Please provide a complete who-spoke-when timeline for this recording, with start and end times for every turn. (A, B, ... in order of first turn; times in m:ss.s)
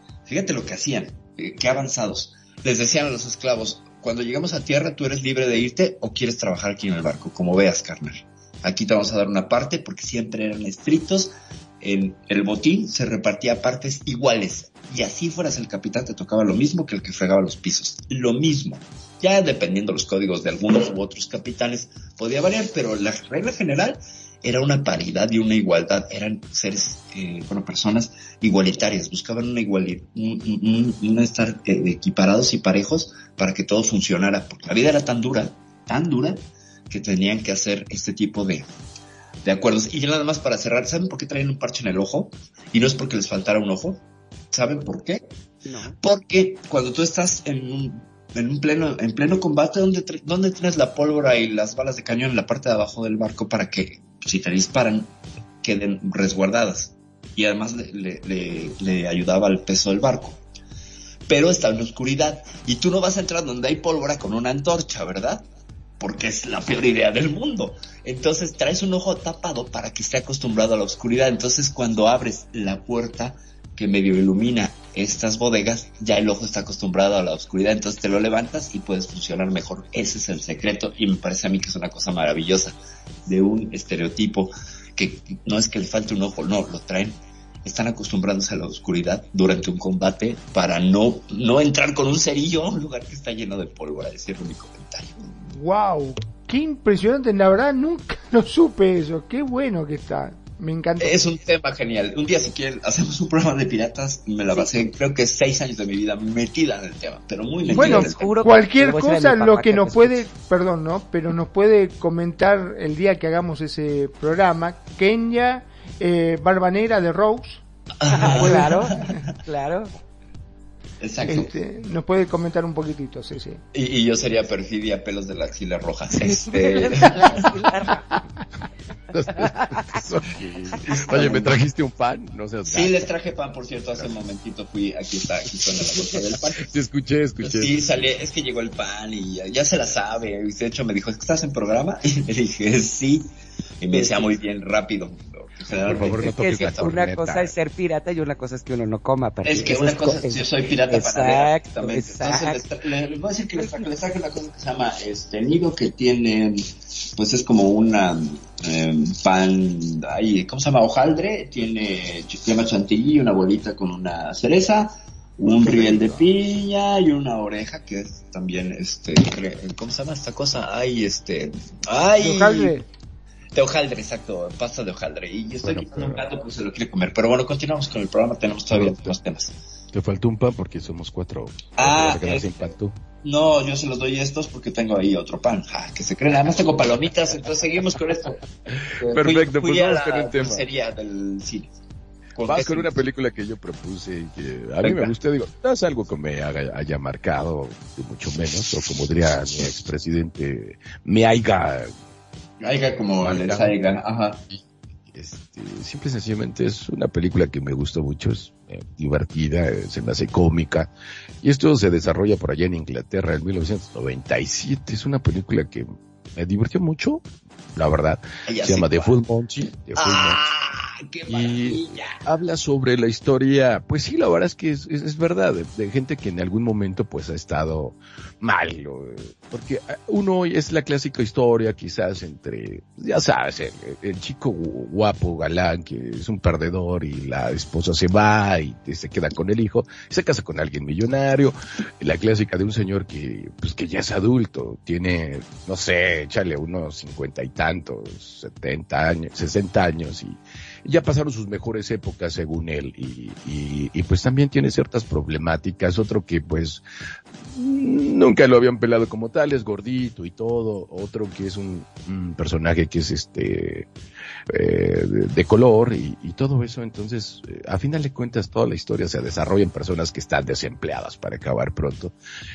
0:00.3-0:38.6 A
0:39.4-0:45.2 A
0:45.6-0:46.0 B
0:46.0-0:55.1 A
0:55.6-1:00.4 A
1:01.3-1:05.4 A
1:06.0-1:22.7 A
1:23.3-1:35.1 A
1:35.3-1:41.2 C
1:41.0-1:48.3 A
1:47.6-1:50.2 B
1:47.7-1:57.6 C
1:58.0-1:59.2 A
1:58.1-1:59.9 B
1:58.3-1:59.2 C
2:01.0-2:01.5 A
2:01.2-2:03.6 C
2:03.7-2:07.6 A
2:06.2-2:08.2 B
2:09.1-2:13.1 D
2:09.4-2:10.0 B
2:10.8-2:11.5 A
2:11.0-2:11.4 B
2:12.6-2:16.7 A
2:15.6-2:18.0 D
2:17.4-2:26.3 A
2:23.9-2:24.3 B
2:25.7-2:27.6 D
2:26.0-2:32.6 B
2:29.4-2:52.8 A
2:33.6-2:33.9 B
2:45.5-2:46.3 C
2:52.2-2:52.8 C
2:53.5-2:59.6 A
2:55.6-2:56.3 D
2:58.7-2:59.1 D
2:59.9-3:03.0 D
3:01.8-3:02.7 A
3:03.2-3:08.4 A
3:08.7-3:10.7 D
3:08.9-3:11.7 A
3:12.4-3:13.0 A
3:12.4-3:21.9 D
3:14.8-3:15.1 A
3:22.6-3:24.4 A
3:23.2-3:23.7 D
3:24.5-3:30.9 D
3:31.4-3:40.4 D
3:38.4-3:39.1 A
3:40.0-3:42.2 A
3:41.3-4:16.8 D
4:17.4-4:23.9 D
4:24.5-4:32.1 D